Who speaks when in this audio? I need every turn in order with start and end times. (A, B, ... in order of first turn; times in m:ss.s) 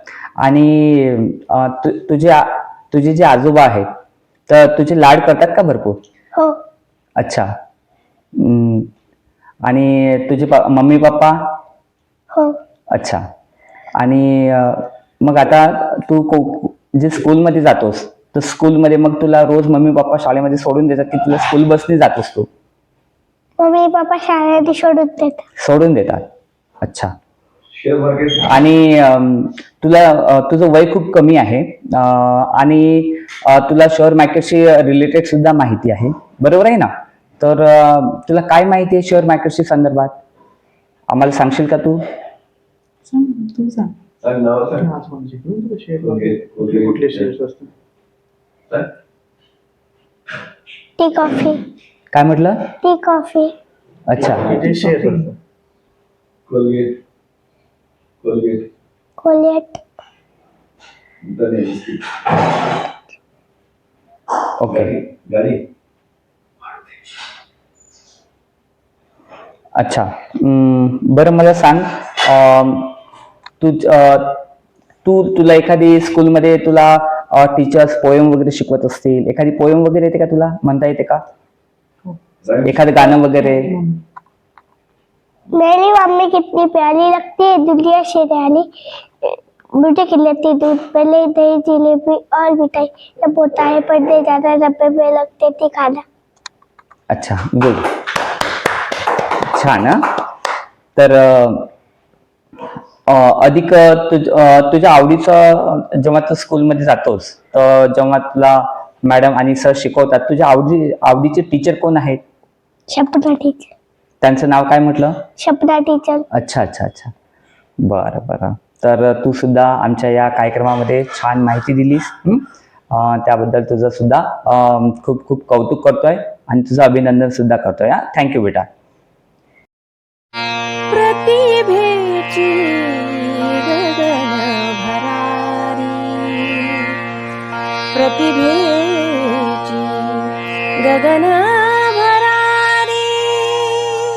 0:00.4-0:03.9 A
0:04.5-0:06.0 A
0:07.2-0:07.5 A
0:08.4-0:08.9 A
0:09.7-0:11.4 A
0:12.3-0:12.6 B
0:12.9-0:13.2 A
0:14.0-0:22.5 A
0:23.6-0:25.4 B
0:25.6-0:26.2 A
0:26.8-0:27.1 A
0:27.8-0:28.4 C
0:28.4-0:40.2 A
0:41.1-0:42.0 A
0:43.1-0:44.0 D
0:44.2-0:44.9 C
0:44.8-0:47.7 E
0:46.1-0:47.3 C
0:51.0-0:51.6 B
0:52.1-0:52.7 A
0:52.8-0:53.5 B
0:54.1-0:54.5 A
0:54.2-0:55.3 E
0:54.5-0:55.2 D
0:56.5-0:57.0 C
0:58.2-0:58.6 C
0:59.2-0:59.8 B
1:01.2-1:02.5 C
1:04.6-1:05.0 A
1:05.1-1:05.6 C
1:09.8-1:13.0 A
1:13.6-1:14.4 A
1:15.0-1:21.2 A
1:22.6-1:23.8 A
1:23.2-1:24.0 D
1:25.5-1:28.7 B
1:29.2-1:36.0 B
1:37.1-1:37.8 A
1:39.4-1:40.0 A
1:41.0-1:41.7 A
1:43.1-1:52.2 A
1:52.9-1:53.7 B
1:54.2-1:55.2 A
1:55.4-1:56.2 B
1:56.4-1:57.1 A
1:57.8-2:08.7 A
2:10.9-2:17.0 F
2:17.9-2:23.8 F